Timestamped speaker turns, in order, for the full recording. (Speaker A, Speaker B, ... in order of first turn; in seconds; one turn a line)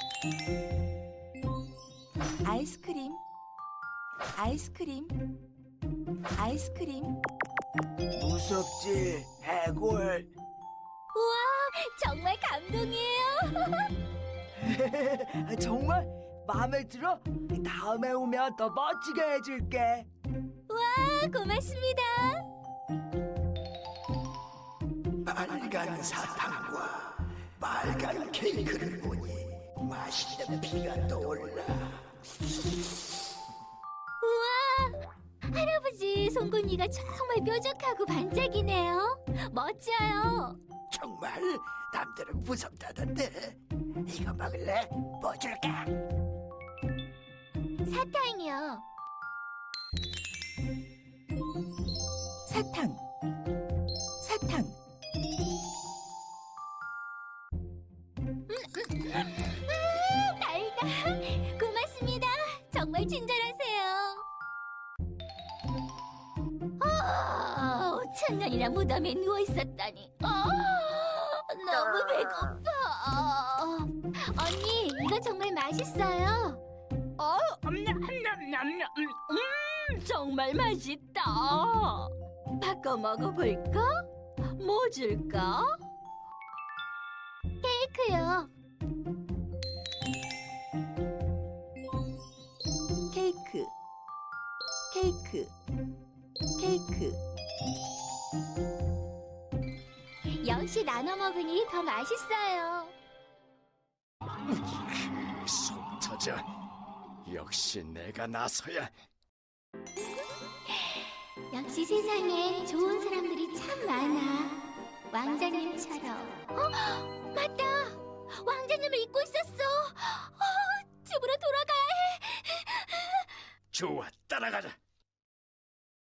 Speaker A: 2.4-3.2
Speaker A: 4.3-5.2
Speaker A: 6.3-7.2
Speaker B: 8.1-10.3
Speaker C: 11.1-13.9
Speaker B: 14.6-20.1
Speaker C: 20.7-22.4
Speaker D: 25.2-32.0
Speaker C: 34.2-40.6
Speaker D: 40.9-45.9
Speaker C: 47.9-48.8
Speaker A: 52.5-53.0
Speaker A: 54.2-54.8
Speaker C: 58.5-64.2
Speaker C: 66.8-76.6
Speaker C: 77.2-84.0
Speaker C: 84.5-85.8
Speaker C: 87.6-88.5
Speaker A: 93.1-93.7
Speaker A: 94.9-95.5
Speaker A: 96.6-97.2
Speaker C: 100.4-102.9
Speaker E: 104.5-106.5
Speaker E: 107.2-108.9
Speaker C: 110.7-123.3
Speaker E: 123.7-124.8